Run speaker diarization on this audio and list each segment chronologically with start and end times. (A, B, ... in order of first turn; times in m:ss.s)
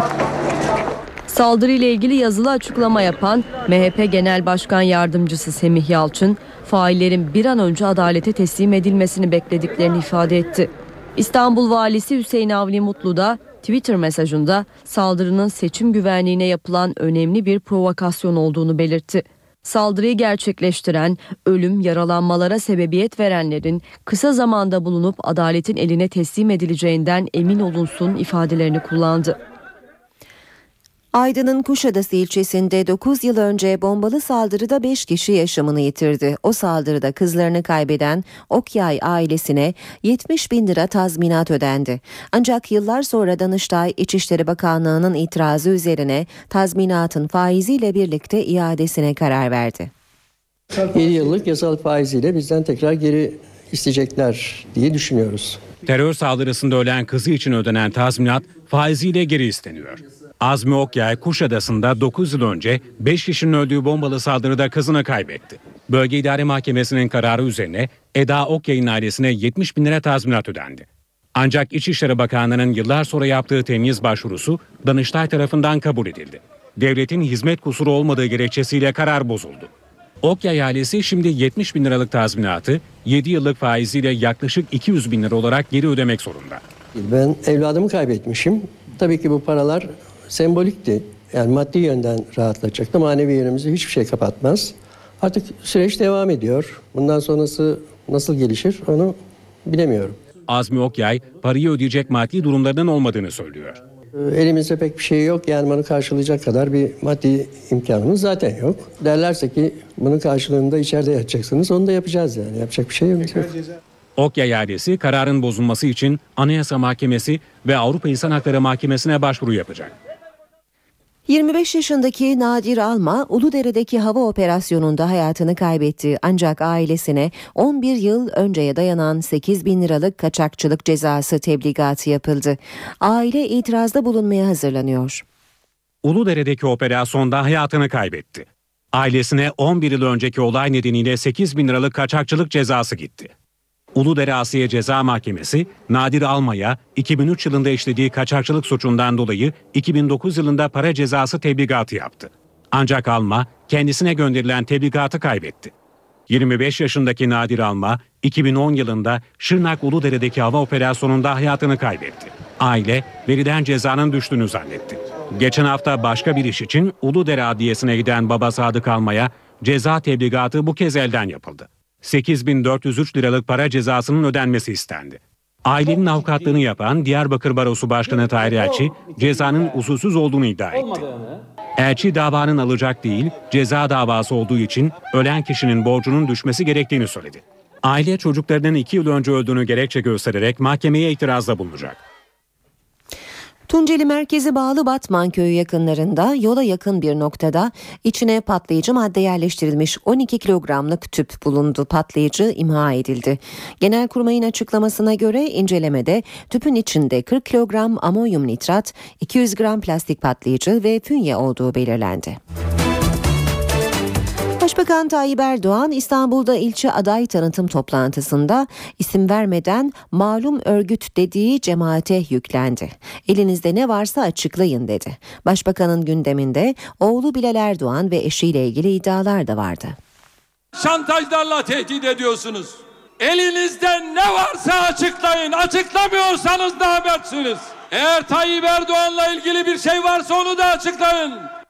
0:01.3-0:29.4 A
0:31.1-0:49.9 B
0:50.8-0:55.6 C
0:55.9-1:19.7 D
1:20.2-1:26.6 D
1:27.0-1:40.2 C
1:40.5-1:43.8 D
1:44.2-1:53.6 C
1:54.2-1:59.9 D
2:01.3-2:15.2 B
2:16.0-2:23.3 D
2:24.0-2:35.7 D
2:36.3-3:01.2 D
3:01.8-3:12.0 D
3:13.7-3:32.4 B
3:34.6-3:50.0 B
3:50.8-4:01.5 E